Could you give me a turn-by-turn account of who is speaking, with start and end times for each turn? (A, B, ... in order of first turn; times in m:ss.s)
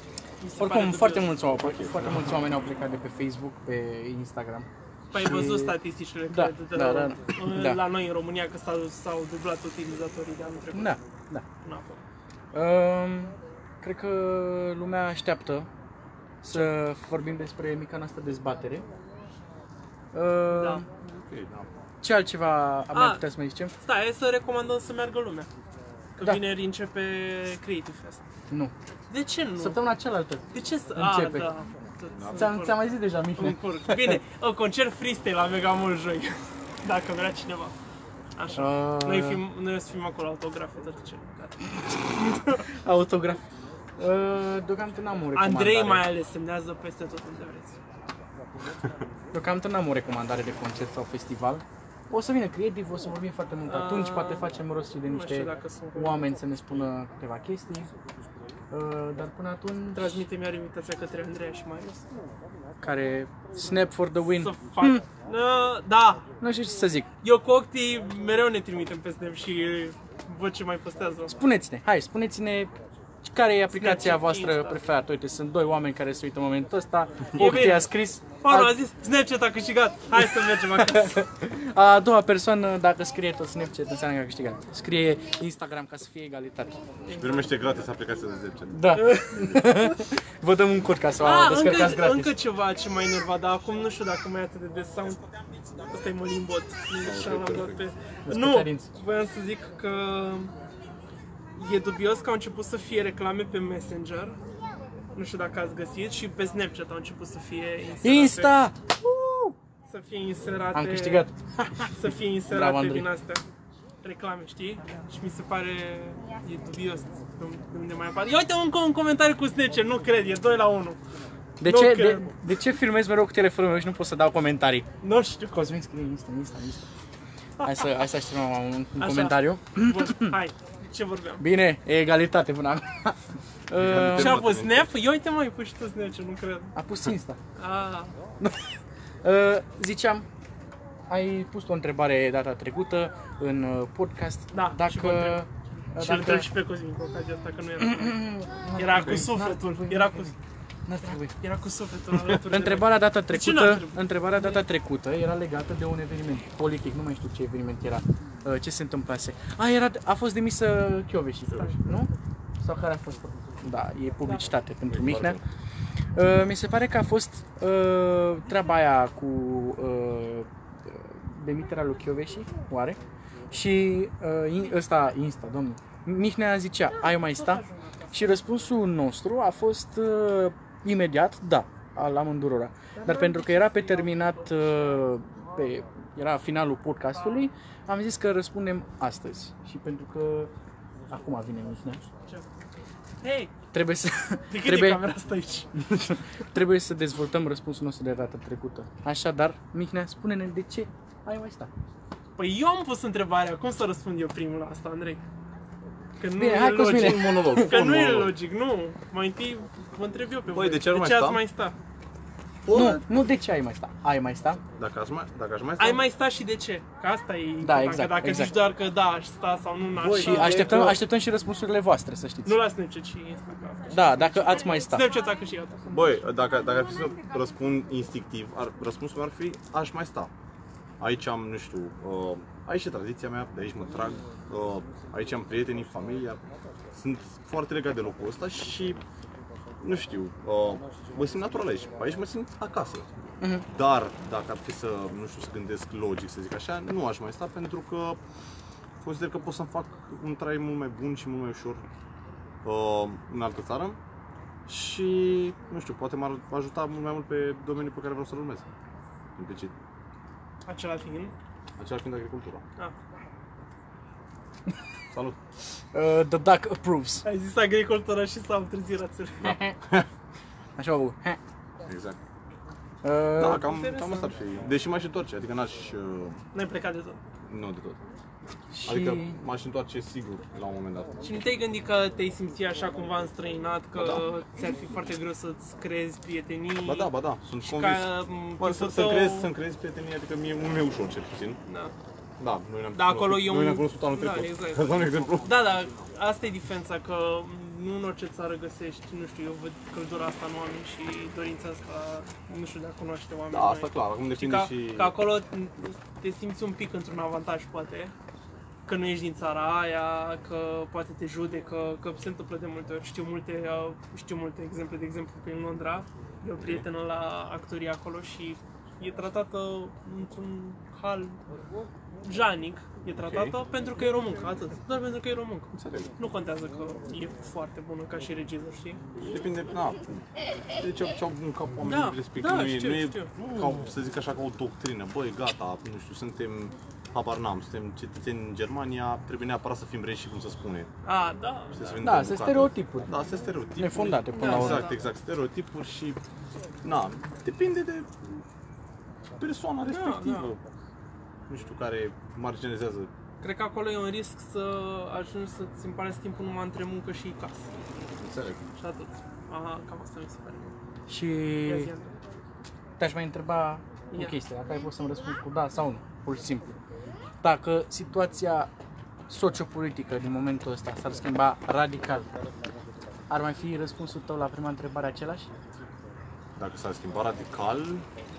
0:00.4-0:01.4 A
0:00.6-0:05.8 B
0:01.6-0:02.4 C
0:05.1-0:11.0 A
0:06.3-0:07.8 B
0:10.7-0:11.4 B
0:11.6-0:12.0 A
0:12.5-0:15.7 B
0:16.4-0:18.9 B
0:20.1-0:20.9 B
0:20.5-0:20.8 A
0:21.0-0:21.7 C
0:22.0-0:23.8 B
0:22.9-0:23.2 A
0:23.8-0:25.5 A
0:26.2-0:28.2 A
0:29.1-0:29.8 A
0:29.6-0:30.4 B
0:30.5-0:37.8 A
0:30.9-0:31.5 B
0:32.1-0:32.5 C
0:32.3-0:34.2 B
0:38.4-0:42.6 A
0:38.6-0:39.4 B
0:42.7-0:43.5 B
0:44.0-0:46.1 B
0:45.4-0:47.8 A
0:49.3-0:57.9 B
0:53.7-0:54.5 A
0:55.1-0:56.2 A
0:58.7-1:00.2 B
0:59.9-1:02.1 A
1:02.8-1:05.0 B
1:04.3-1:06.2 A
1:06.4-1:07.1 B
1:07.2-1:11.4 A
1:11.4-1:12.7 B
1:13.2-1:18.8 B
1:13.7-1:14.8 A
1:17.4-1:17.9 A
1:18.4-1:21.2 A
1:20.2-1:26.8 B
1:27.1-1:27.6 A
1:27.1-1:29.6 C
1:28.7-1:32.4 B
1:31.2-1:35.2 A
1:35.9-1:40.5 A
1:37.0-1:37.8 C
1:38.3-1:38.9 B
1:41.6-1:44.4 A
1:45.1-1:48.6 A
1:48.0-1:49.6 B
1:49.8-1:51.3 A
1:50.7-1:52.0 B
1:51.9-1:53.4 A
1:52.5-1:53.1 B
1:54.0-2:01.0 A
2:01.6-2:04.9 B
2:01.6-2:02.4 A
2:05.0-2:05.7 A
2:05.5-2:06.9 B
2:07.6-2:10.4 B
2:09.0-2:11.4 A
2:11.4-2:13.2 B
2:13.7-2:14.4 B
2:13.7-2:14.9 C
2:14.1-2:16.8 A
2:16.8-2:17.4 B
2:17.6-2:18.2 A
2:18.4-2:20.3 B
2:21.1-2:26.5 B
2:24.5-2:28.2 A
2:27.8-2:30.3 B
2:28.8-2:30.4 A
2:30.9-2:31.4 B
2:31.0-2:34.6 A
2:32.4-2:45.4 B
2:41.5-2:41.8 C
2:44.9-2:45.4 C
2:46.2-2:53.0 B
2:53.5-3:10.5 B
2:57.0-2:58.4 A
3:03.0-3:04.5 A
3:11.1-3:12.0 B
3:13.2-3:13.5 A
3:13.7-3:15.0 B
3:14.5-3:15.7 A
3:15.8-3:21.7 B
3:22.4-3:25.2 A
3:26.2-3:31.8 A
3:26.4-3:27.8 B
3:26.8-3:28.3 C
3:30.5-3:31.4 C
3:32.6-3:33.1 C
3:32.7-3:34.6 B
3:34.8-3:36.0 C
3:35.8-3:41.0 A
3:37.6-3:38.6 B
3:40.0-3:41.0 C
3:40.0-3:42.6 B
3:42.4-3:46.1 A
3:43.9-3:45.1 B
3:45.9-3:50.3 C
3:51.0-3:59.0 C
3:59.8-4:03.1 C
4:03.4-4:03.7 B
4:03.7-4:08.2 C
4:09.0-4:11.8 C
4:12.6-4:14.0 C
4:14.7-4:18.7 C
4:19.4-4:19.7 C
4:20.7-4:21.3 A
4:21.8-4:22.6 C
4:25.1-4:25.4 C
4:25.9-4:27.2 B
4:27.2-4:29.6 A
4:29.4-4:30.1 C
4:29.4-4:29.8 B
4:30.8-4:31.4 B
4:31.8-4:32.2 C
4:33.0-4:33.7 B
4:33.4-4:36.4 C
4:33.6-4:34.3 A
4:36.5-4:37.2 A
4:37.5-4:38.0 C
4:38.7-4:39.4 B
4:38.8-4:41.4 C
4:41.2-4:49.5 A
4:43.9-4:44.2 C
4:46.8-4:51.6 C
4:51.7-4:51.9 A
4:52.4-4:55.9 C
4:52.9-5:08.1 A
5:03.5-5:05.2 C
5:08.9-5:21.4 A
5:16.6-5:16.9 C
5:22.2-5:29.0 A
5:23.2-5:23.6 C
5:25.7-5:26.1 C
5:29.2-5:30.2 C
5:30.8-5:40.9 C
5:31.9-5:33.3 A
5:41.0-5:42.0 A
5:41.7-5:46.2 C
5:42.0-5:43.1 B
5:43.8-5:44.9 B
5:44.3-5:45.0 A
5:46.8-5:48.4 C
5:49.4-5:50.6 C
5:49.9-5:50.5 A
5:51.5-5:53.1 C
5:53.4-5:57.7 A
5:58.2-5:58.6 C
5:58.8-6:00.8 A
6:01.1-6:01.9 B
6:01.6-6:02.1 A
6:03.0-6:06.8 B
6:07.4-6:08.7 B
6:09.3-6:12.3 B
6:13.3-6:15.5 B
6:16.6-6:18.1 C